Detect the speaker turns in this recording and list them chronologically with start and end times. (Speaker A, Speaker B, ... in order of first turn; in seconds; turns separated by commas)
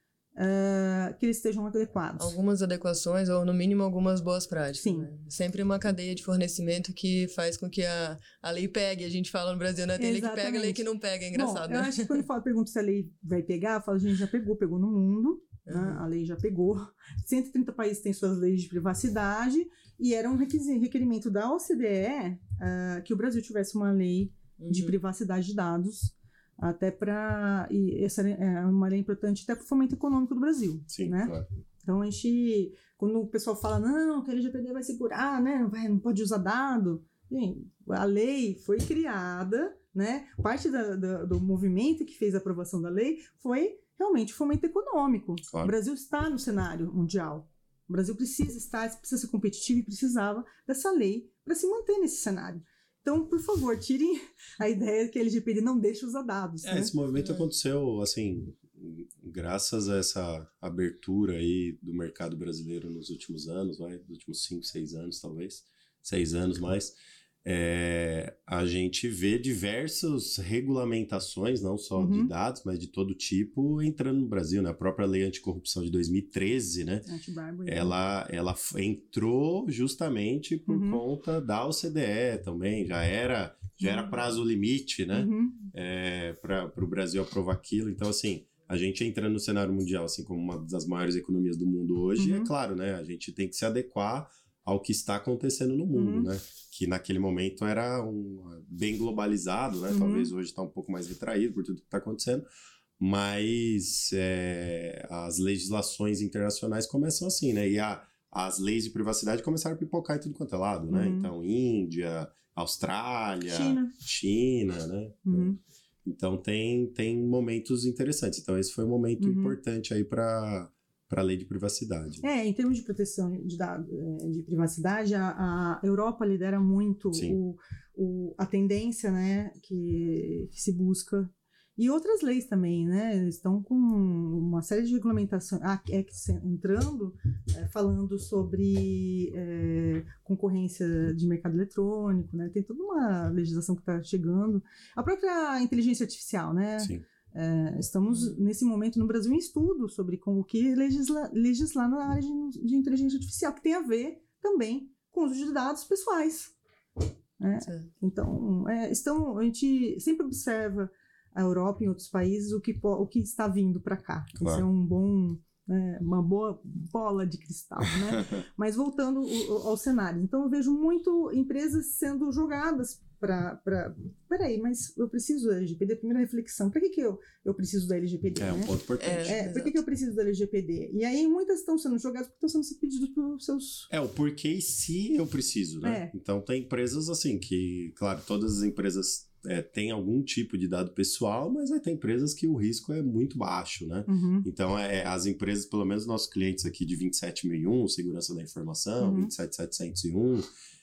Speaker A: 0.3-2.4, Speaker B: 2.2-12.2, Speaker A: 4.8-5.1, Speaker A: 10.0-56.9, Speaker B: 15.7-16.0, Speaker B: 24.6-25.0, Speaker C: 30.9-31.4, Speaker C: 56.6-77.1, Speaker B: 57.2-57.5, Speaker A: 72.0-72.3, Speaker A: 77.1-77.9, Speaker C: 77.7-102.5, Speaker A: 80.7-81.0, Speaker A: 83.8-84.1, Speaker A: 85.1-85.7, Speaker A: 92.2-92.5, Speaker A: 95.9-96.3, Speaker A: 99.9-100.3, Speaker C: 103.0-115.5, Speaker A: 110.9-111.3, Speaker A: 113.4-113.9, Speaker A: 115.2-115.6, Speaker C: 116.0-122.2, Speaker A: 119.2-119.6, Speaker A: 122.2-156.5, Speaker C: 146.8-147.0, Speaker A: 157.4-178.7, Speaker C: 164.4-164.7, Speaker C: 168.1-168.4, Speaker C: 178.3-179.3, Speaker B: 179.0-179.8, Speaker A: 179.2-183.9, Speaker C: 183.9-200.4, Speaker A: 185.8-186.1, Speaker A: 194.1-194.5, Speaker A: 199.0-199.3